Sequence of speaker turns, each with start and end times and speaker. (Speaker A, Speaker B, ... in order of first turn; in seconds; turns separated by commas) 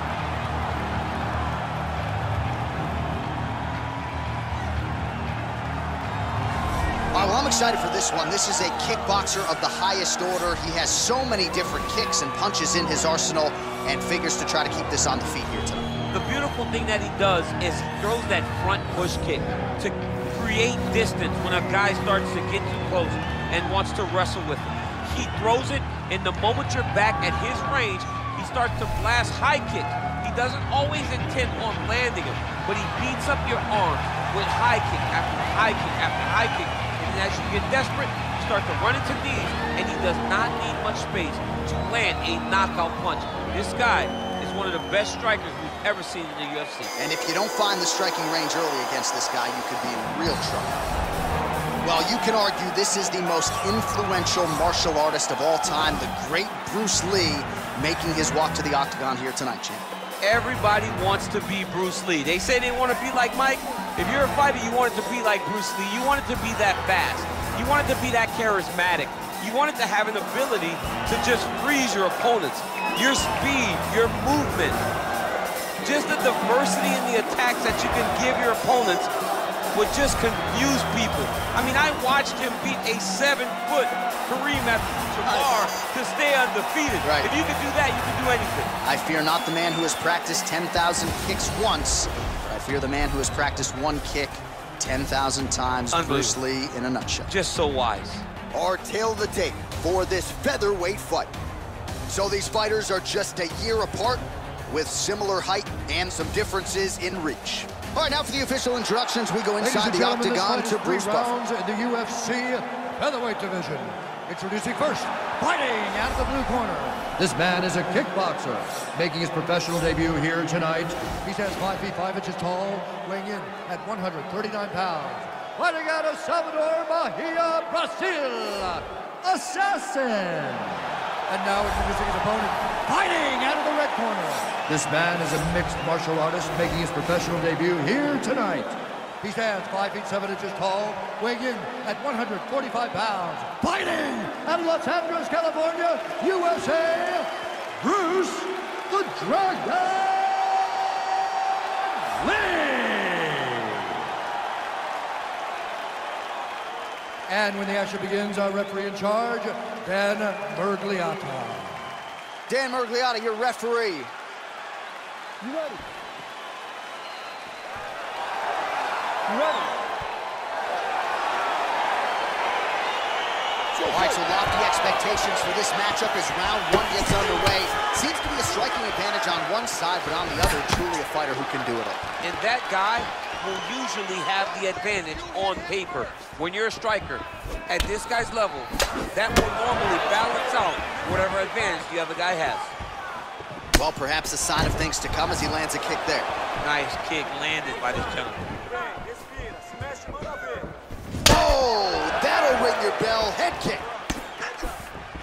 Speaker A: 7.1-15.9, Speaker B: 16.1-46.9, Speaker A: 47.0-50.8, Speaker A: 51.8-59.9, Speaker B: 60.2-74.8, Speaker B: 75.8-79.1, Speaker B: 79.7-88.7, Speaker A: 87.0-87.3, Speaker A: 88.8-97.3, Speaker B: 95.9-96.4, Speaker B: 97.3-98.2, Speaker A: 98.5-101.3, Speaker A: 102.1-111.3, Speaker C: 109.6-151.0, Speaker C: 151.7-153.9, Speaker C: 157.3-161.8, Speaker A: 162.5-164.1, Speaker A: 173.8-182.0, Speaker B: 182.2-192.7, Speaker A: 193.7-196.3, Speaker B: 196.6-198.5, Speaker A: 201.2-203.9